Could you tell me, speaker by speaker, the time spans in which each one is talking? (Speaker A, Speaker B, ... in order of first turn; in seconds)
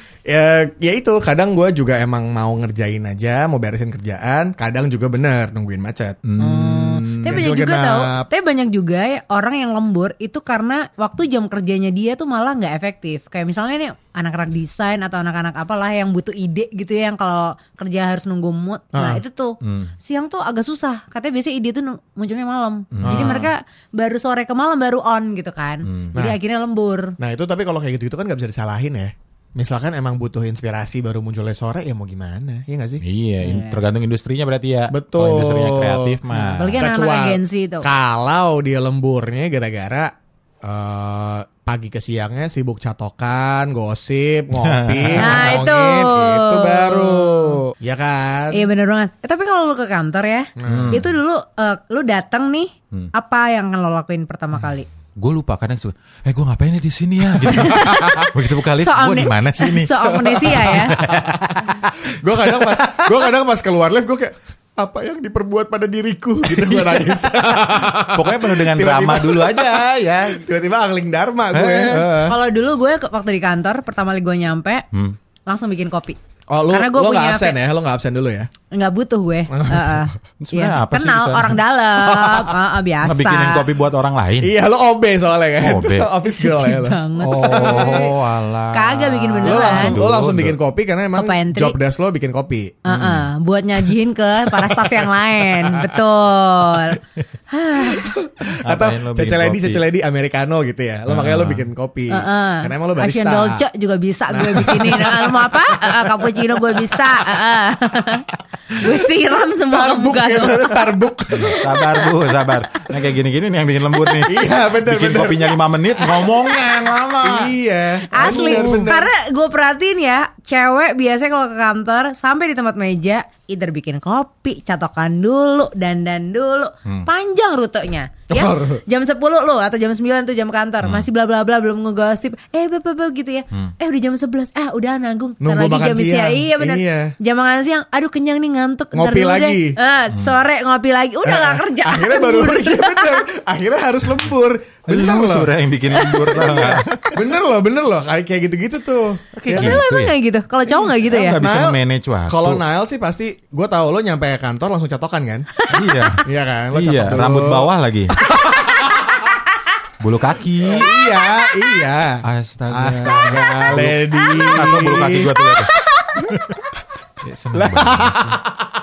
Speaker A: 0.3-6.2, 7.2-8.3, 18.9-19.2, 27.2-33.0, 34.9-36.2, 36.8-40.1, 40.6-48.7, 50.6-51.1, 57.5-57.9, 60.6-72.3, 76.5-78.5, 79.5-80.1, 82.0-82.5, 84.4-88.1, 89.4-92.8, 94.5-95.9, 97.8-103.6, 104.3-107.0, 109.6-111.7, 114.2-116.3, 117.2-119.1, 128.3-128.8, 135.4-137.1, 138.9-139.8, 141.2-145.5, 146.3-149.8, 151.0-151.8, 152.3-155.5, 156.2-157.7, 158.2-159.1, 160.6-165.3, 167.5-168.6
Speaker B: 6.2-7.5, 19.6-19.9, 22.9-23.5, 25.8-26.1, 33.0-36.8, 44.6-45.6, 50.7-51.0, 55.2-63.3, 66.4-70.4, 71.5-72.1, 74.9-75.2, 80.4-81.6, 83.0-84.5, 85.6-86.1, 87.2-90.5, 92.9-93.3, 98.6-99.8, 101.1-101.7, 111.3-117.5, 118.2-118.9, 130.8-131.1, 144.9-146.9, 149.4-150.1, 151.1-152.6, 155.7-158.2, 160.0-160.9, 162.2-165.7, 166.3-166.6, 167.2-168.4
Speaker C: 6.4-27.1, 33.4-33.8, 36.3-37.9, 45.2-47.6, 48.5-54.9, 57.5-60.9, 72.2-74.8, 75.5-76.2, 76.7-77.6, 78.7-83.6, 86.2-88.1, 88.7-90.0, 91.2-91.8, 92.9-98.1, 102.1-110.8, 111.5-112.1, 118.1-143.2, 145.9-146.5, 149.5-151.4